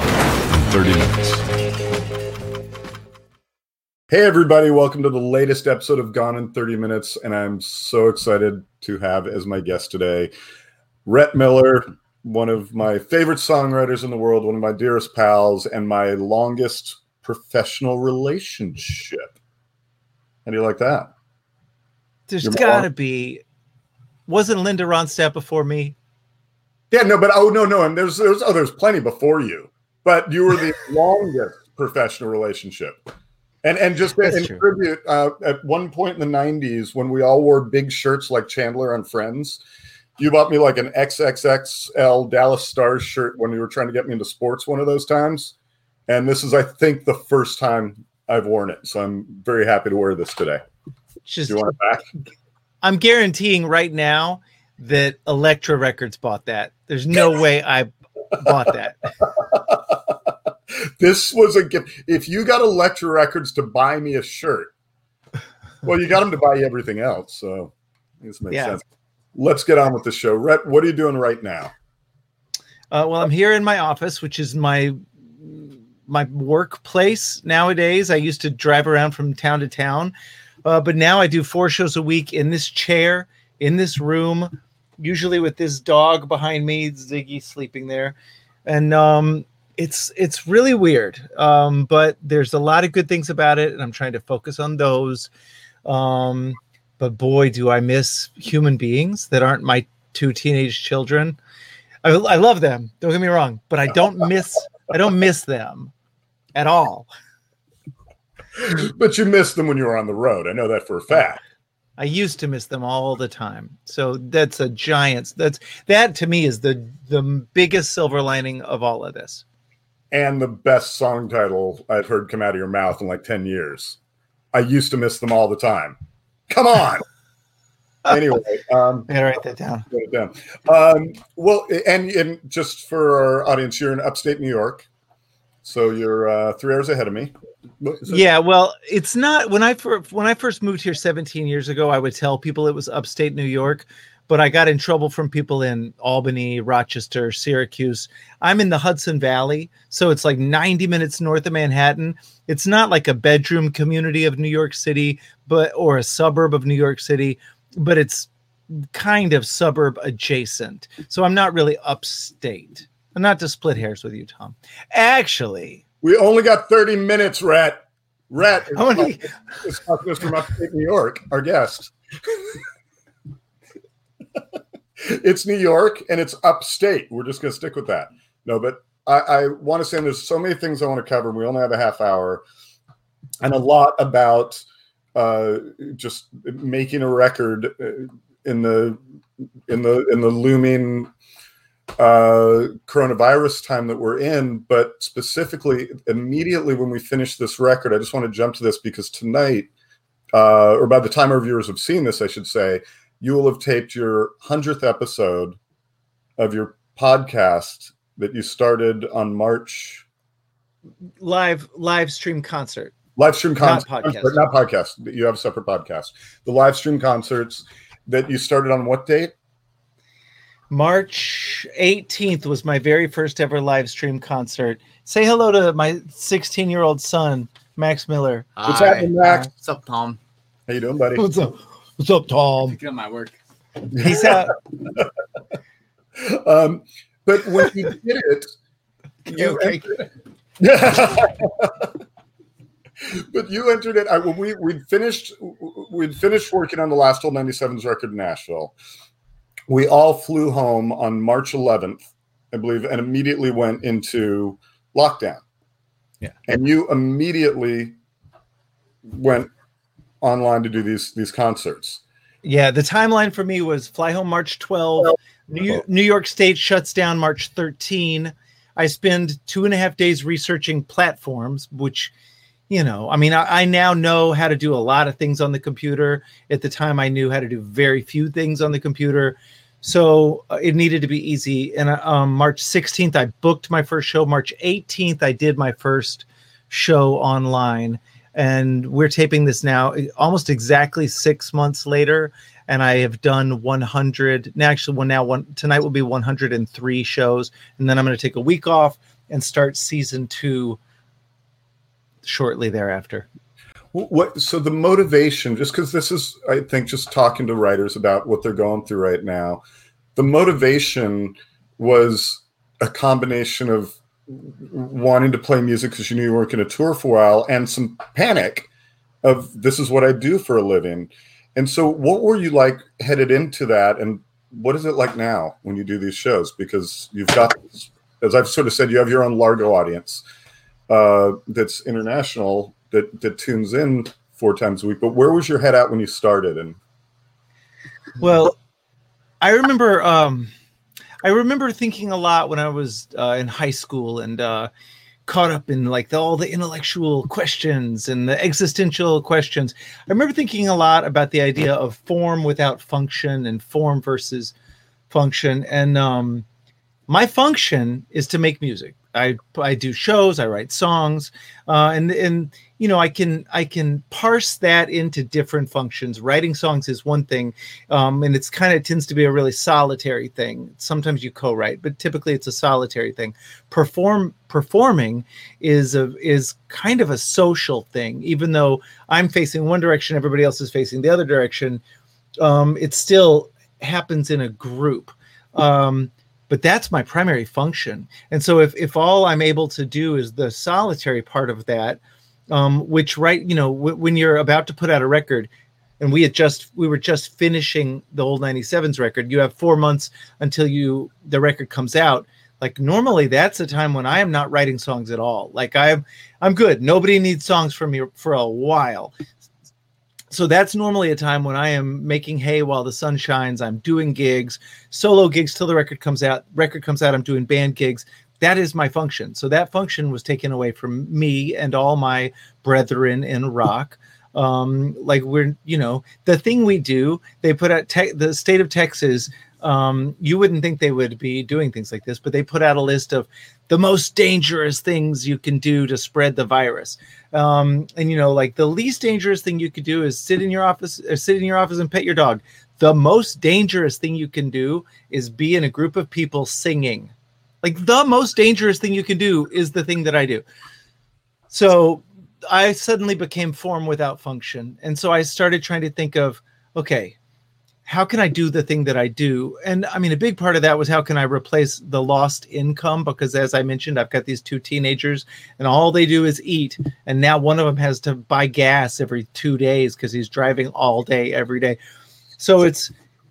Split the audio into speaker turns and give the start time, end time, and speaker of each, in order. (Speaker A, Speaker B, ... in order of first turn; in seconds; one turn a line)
Speaker A: 0.5-1.4
Speaker A: 4.1-10.3
Speaker A: 11.1-19.3
Speaker A: 20.4-21.1
Speaker B: 22.3-23.4
Speaker A: 22.4-22.9
Speaker B: 24.3-25.9
Speaker A: 26.9-33.1
Speaker A: 33.6-39.6
Speaker B: 34.2-34.6
Speaker A: 40.2-45.5
Speaker A: 46.1-50.6
Speaker B: 51.2-51.7
Speaker A: 51.5-52.0
Speaker B: 52.8-59.1
Speaker A: 60.7-64.7
Speaker A: 65.8-68.8
Speaker B: 68.5-68.8
Speaker A: 69.3-71.7
Speaker B: 72.9-80.1
Speaker B: 80.6-88.1
Speaker B: 88.7-95.3
Speaker B: 95.8-101.4
Speaker B: 102.0-105.9
Speaker B: 106.5-107.1
Speaker A: 108.6-111.4
Speaker B: 112.0-119.4
Speaker A: 120.1-124.0
Speaker A: 124.5-126.0
Speaker A: 126.5-127.0
Speaker A: 128.1-129.1
Speaker B: 129.1-129.9
Speaker A: 129.9-134.9
Speaker A: 135.6-138.3
Speaker B: 138.1-165.8
Speaker A: 166.0-172.6
Speaker B: 168.8-169.2
Speaker A: 175.0-182.4
Speaker A: 183.4-184.6
Speaker A: 185.1-189.0
Speaker A: 189.7-191.1
Speaker A: 192.0-199.7
Speaker A: 200.3-205.6
Speaker A: 206.4-210.0
Speaker B: 211.2-212.9
Speaker A: 213.2-219.3
Speaker B: 213.6-214.4
Speaker B: 220.7-228.5
Speaker C: 228.6-230.2
Speaker A: 228.6-229.5
Speaker A: 230.7-231.2
Speaker B: 231.2-232.8
Speaker C: 232.6-233.3
Speaker A: 233.9-234.4
Speaker B: 233.9-234.5
Speaker A: 236.2-238.5
Speaker A: 239.3-240.0
Speaker B: 239.3-239.9
Speaker A: 240.6-241.9
Speaker A: 243.0-248.7
Speaker A: 249.7-255.4
Speaker A: 256.5-257.9
Speaker A: 259.1-259.5
Speaker A: 260.2-262.0
Speaker B: 262.4-272.1
Speaker B: 272.7-300.8
Speaker B: 302.2-303.2
Speaker A: 303.9-309.6
Speaker A: 310.1-318.7
Speaker A: 319.2-330.2
Speaker A: 330.9-336.8
Speaker B: 338.2-338.6
Speaker B: 339.4-340.5
Speaker B: 341.2-344.7
Speaker B: 345.2-354.5
Speaker B: 355.1-356.4
Speaker B: 357.1-381.8
Speaker B: 382.4-409.1
Speaker B: 410.3-450.4
Speaker B: 451.5-457.1
Speaker B: 457.9-471.8
Speaker B: 472.4-472.9